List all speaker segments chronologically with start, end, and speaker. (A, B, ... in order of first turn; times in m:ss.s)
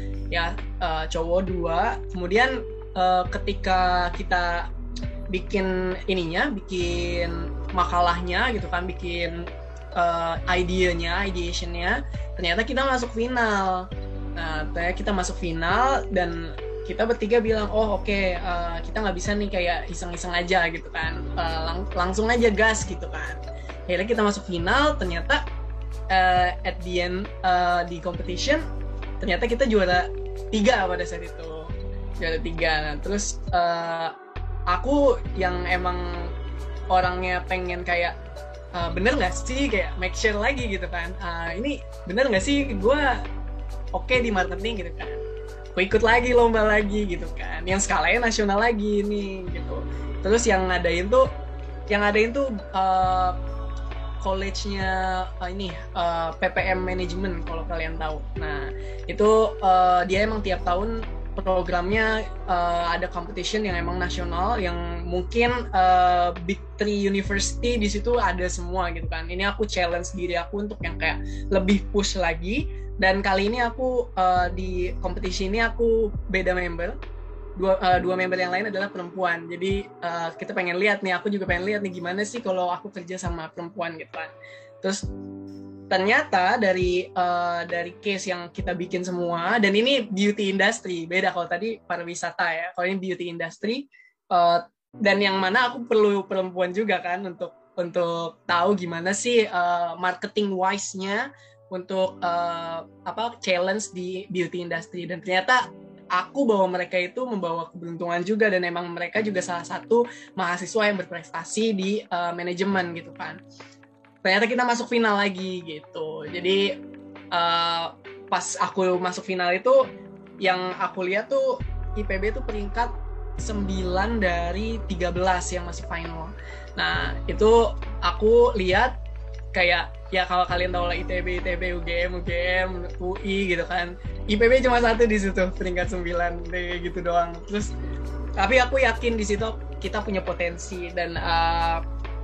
0:00.3-0:04.7 A
0:05.3-0:25.4 A
0:26.1-0:28.6 A
0:29.2-0:34.1 A
0:34.7-0:36.3 A
0:36.9-0:38.2 A
0:38.8-0:43.1 A
0:43.9-0:45.2 A
0:45.8-0:51.3 A
0:51.9-0:53.4 A
0:54.2-1:17.0 A
1:17.6-1:25.0 A
1:25.9-1:53.4 A
1:54.2-1:56.7 A
1:57.3-1:59.8 A
2:00.4-2:09.0 A
2:09.5-2:17.7 A
2:18.4-2:21.8 A